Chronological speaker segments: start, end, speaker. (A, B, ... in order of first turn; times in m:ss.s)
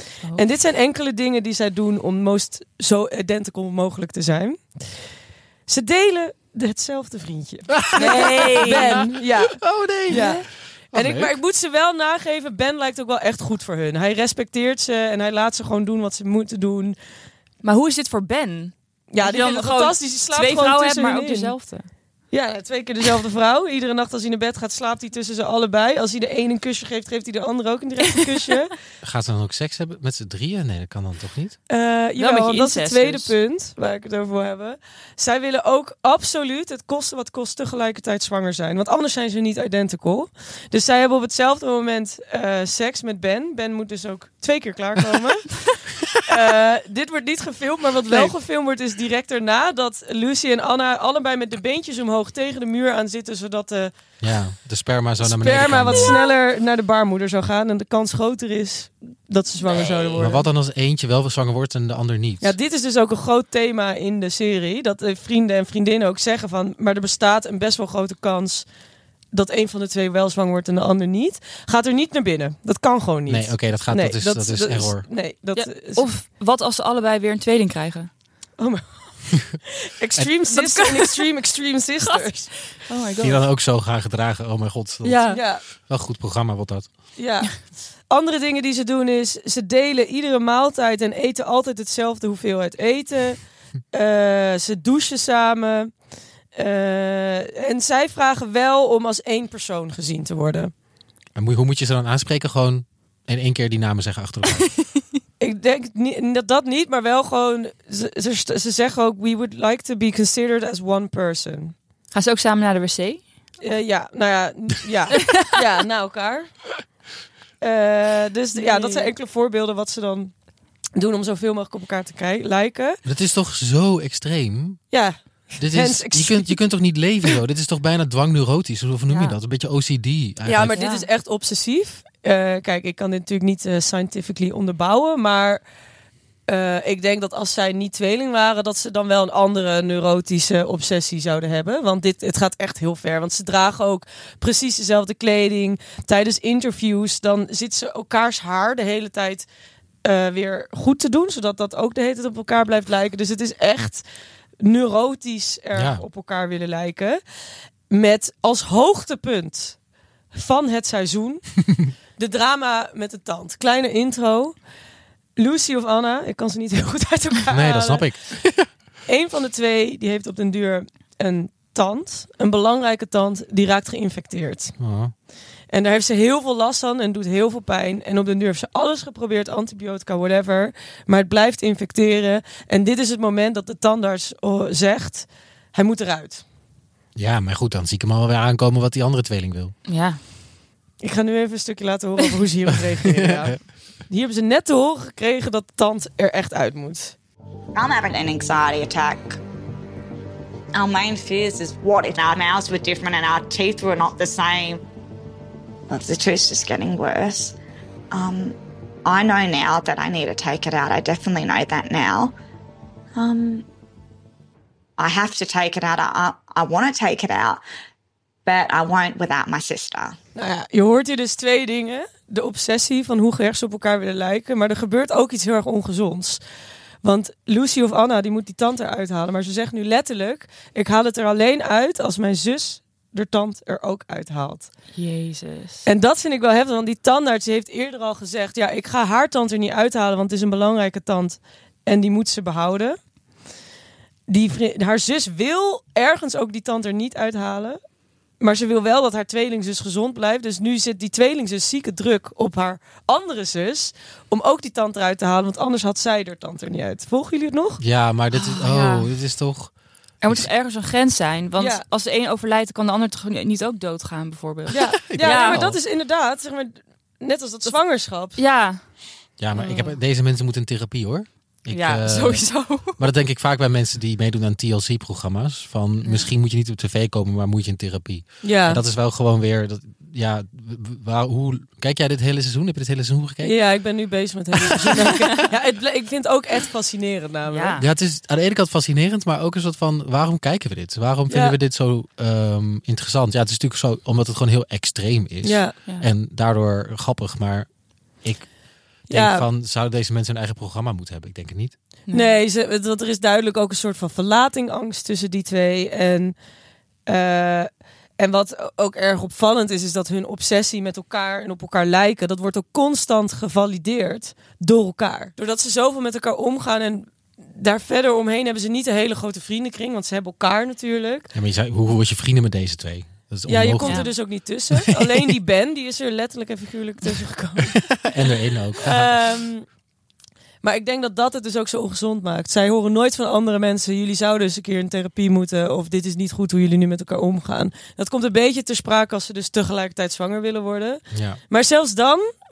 0:00.4-0:04.6 A
0:05.7-0:17.0 A
0:07.7-0:10.4 B
0:08.0-0:09.0 C
0:10.1-0:10.4 C
0:10.9-0:11.4 B
0:17.6-0:21.9 C
0:19.1-0:21.5 A
0:22.3-0:28.7 A
0:29.0-0:31.6 B
0:31.7-0:45.6 A
0:32.2-0:33.3 C
0:46.3-0:53.9 A
0:54.2-0:56.2 B
0:55.2-1:00.5 A
0:59.7-1:00.2 C
1:00.2-1:02.6 B
1:02.4-1:08.7 A
1:09.3-1:16.1 A
1:13.3-1:15.1 B
1:15.6-1:18.1 C
1:18.6-1:22.5 A
1:20.5-1:21.2 C
1:22.0-1:23.5 C
1:23.2-1:25.3 B
1:25.0-1:25.4 C
1:25.3-1:25.6 A
1:25.9-1:26.9 B
1:27.2-1:27.5 A
1:28.1-1:33.4 A
1:33.9-1:35.9 A
1:36.6-1:40.7 A
1:41.4-1:44.7 B
1:45.4-1:51.8 A
1:52.1-1:53.2 C
1:53.6-1:56.5 A
1:57.6-2:00.3 A
1:58.6-1:59.1 C
2:01.0-2:03.0 A
2:03.0-2:04.8 B
2:04.9-2:06.6 A
2:05.6-2:10.8 B
2:09.1-2:09.4 C
2:10.4-2:15.6 A
2:10.7-2:11.1 C
2:16.5-2:29.5 A
2:30.0-2:34.0 A
2:34.6-2:37.2 A
2:35.8-2:36.0 B
2:37.9-2:39.8 A
2:40.3-2:41.5 A
2:42.2-2:44.6 A
2:45.4-2:48.1 A
2:47.5-2:48.7 B
2:49.1-2:54.8 A
2:54.8-2:55.1 B
2:55.7-3:06.4 A
3:07.2-3:09.7 B
3:09.9-3:10.2 C
3:11.0-3:17.2 A
3:17.8-3:19.4 D
3:20.7-3:24.8 D
3:25.9-3:27.6 D
3:28.1-3:32.3 D
3:33.2-3:33.6 D
3:35.0-3:37.6 D
3:38.5-3:40.2 D
3:40.4-3:46.4 A
3:47.0-3:54.7 A
3:55.0-3:55.9 C
3:55.8-4:03.0 A
4:04.3-4:07.8 A
4:08.4-4:17.8 A
4:17.8-4:19.7 B
4:18.3-4:19.1 C
4:20.2-4:25.7 C
4:21.6-4:21.8 A
4:24.7-4:28.4 A
4:24.7-4:25.8 B
4:28.4-4:28.8 C
4:29.4-4:43.6 B
4:31.7-4:33.0 C
4:36.0-4:36.3 C
4:38.4-4:38.8 A
4:43.4-4:47.8 A
4:44.7-4:45.2 B
4:47.5-4:47.8 C
4:47.8-4:57.7 B
4:51.3-4:51.6 A
4:55.4-4:55.8 A
4:58.2-4:58.5 B
4:59.1-4:59.5 A
4:59.1-5:01.7 B
5:02.1-5:02.3 C
5:02.1-5:06.4 A
5:07.1-5:21.3 A
5:21.3-5:24.2 B
5:23.5-5:27.9 A
5:23.8-5:24.1 C
5:24.7-5:25.3 B
5:27.9-5:29.2 B
5:28.8-5:29.7 A
5:30.6-5:42.2 A
5:41.1-5:41.4 B